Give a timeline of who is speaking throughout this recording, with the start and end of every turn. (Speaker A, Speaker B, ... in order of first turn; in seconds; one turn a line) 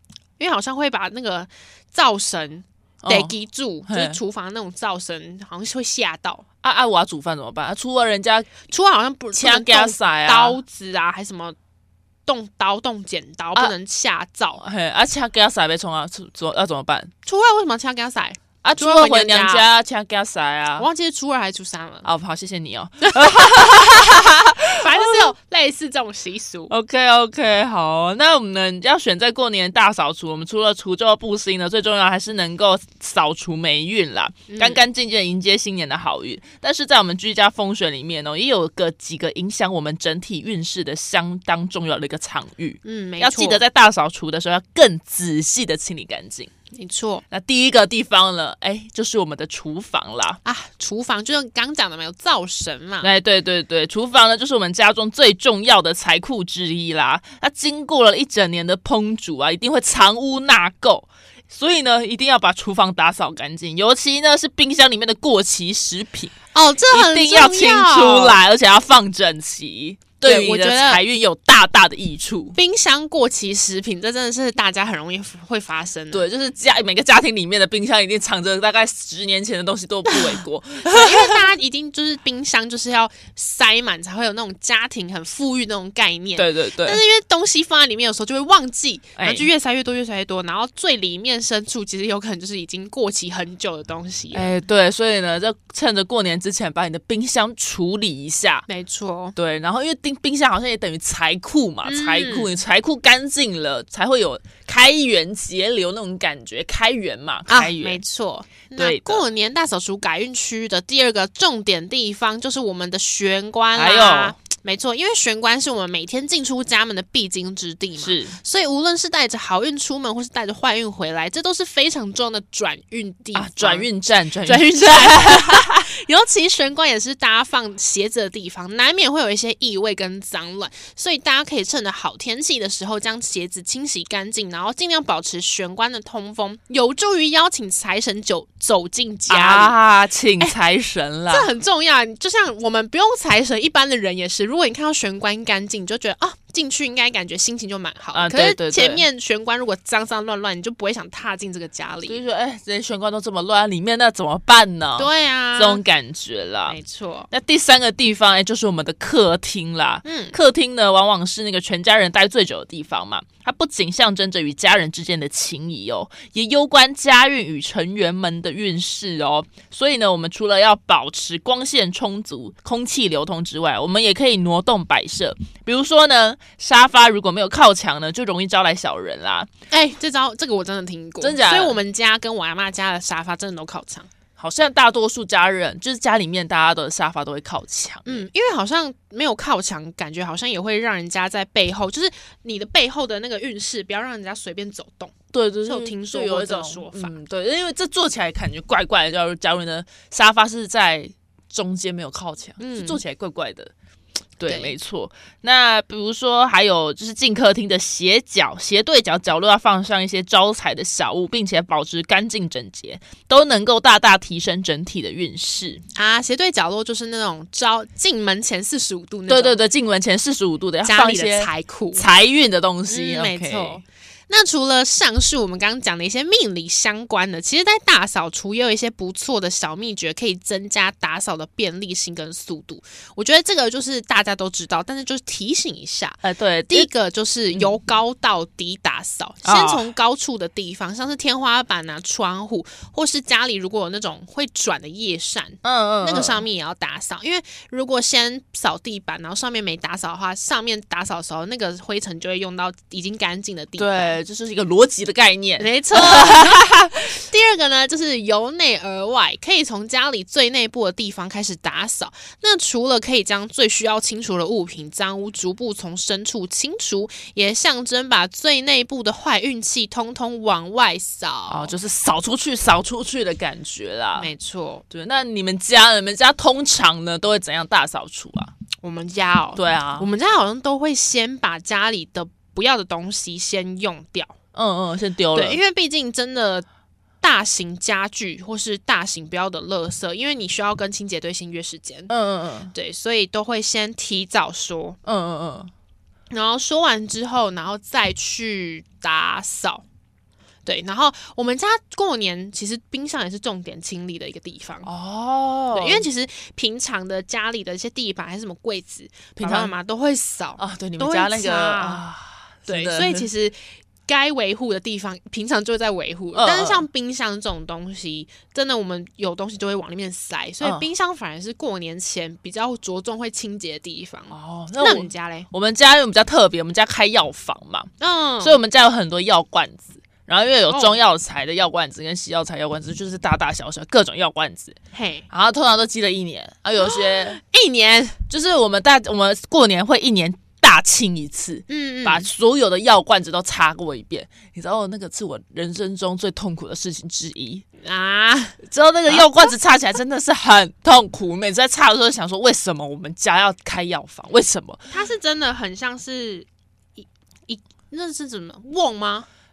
Speaker A: 0.4-6.4
Speaker B: 3.0-3.3
Speaker B: 3.9-4.2
Speaker B: 6.6-8.5
Speaker A: 8.7-11.6
Speaker B: 9.3-10.6
Speaker A: 12.2-14.6
Speaker B: 14.6-17.1
Speaker A: 17.2-19.6
Speaker B: 18.6-20.9
Speaker A: 20.8-22.1
Speaker B: 22.0-25.3
Speaker A: 23.0-23.6
Speaker A: 24.8-26.7
Speaker B: 26.7-46.5
Speaker A: 34.5-34.8
Speaker A: 42.8-43.6
Speaker A: 46.7-47.2
Speaker B: 47.3-50.4
Speaker A: 50.4-53.1
Speaker B: 53.0-66.3
Speaker A: 66.5-68.4
Speaker B: 66.9-72.6
Speaker A: 70.2-71.0
Speaker A: 72.5-76.2
Speaker B: 76.1-81.5
Speaker A: 80.9-94.5
Speaker B: 86.3-87.0
Speaker B: 89.2-89.5
Speaker B: 94.3-98.7
Speaker A: 98.7-99.3
Speaker B: 99.3-108.0
Speaker A: 101.8-102.5
Speaker A: 107.5-123.9
Speaker B: 108.8-109.2
Speaker B: 113.7-114.3
Speaker B: 118.0-118.4
Speaker B: 123.3-125.9
Speaker A: 124.4-139.8
Speaker B: 139.3-141.5
Speaker A: 141.3-152.2
Speaker B: 148.1-149.1
Speaker B: 152.1-156.8
Speaker A: 155.0-155.8
Speaker A: 156.7-157.3
Speaker B: 157.3-179.5
Speaker A: 160.0-160.3
Speaker A: 179.7-184.1
Speaker B: 181.2-181.8
Speaker B: 184.4-188.3
Speaker A: 188.1-197.1
Speaker B: 195.3-203.7
Speaker A: 202.6-203.0
Speaker B: 204.4-215.8
Speaker A: 204.5-204.7
Speaker A: 215.9-219.6
Speaker B: 219.3-223.8
Speaker A: 220.8-222.0
Speaker A: 222.9-254.2
Speaker B: 236.2-236.9
Speaker B: 239.4-239.9
Speaker B: 245.6-246.4
Speaker B: 253.8-256.9
Speaker A: 255.6-271.7
Speaker B: 271.5-274.3
Speaker A: 274.1-274.8
Speaker B: 274.9-278.5
Speaker A: 278.8-284.3
Speaker B: 279.6-280.1
Speaker B: 284.5-285.6
Speaker A: 285.3-286.6
Speaker A: 287.2-292.1
Speaker B: 292.1-292.7
Speaker A: 292.7-295.0
Speaker B: 295.1-295.7
Speaker A: 296.3-299.8
Speaker A: 300.6-304.9
Speaker B: 304.8-306.1
Speaker A: 305.7-312.0
Speaker B: 309.4-309.7
Speaker B: 310.6-313.3
Speaker A: 312.7-325.5
Speaker B: 316.3-316.9
Speaker B: 320.6-320.9
Speaker B: 324.3-327.9
Speaker A: 328.0-328.6
Speaker B: 328.4-334.8
Speaker A: 330.7-331.0
Speaker A: 334.9-335.2
Speaker B: 335.3-337.4
Speaker A: 336.8-338.2
Speaker B: 338.3-347.6
Speaker A: 341.7-342.3
Speaker A: 347.8-348.6
Speaker B: 348.6-354.9
Speaker A: 354.9-359.3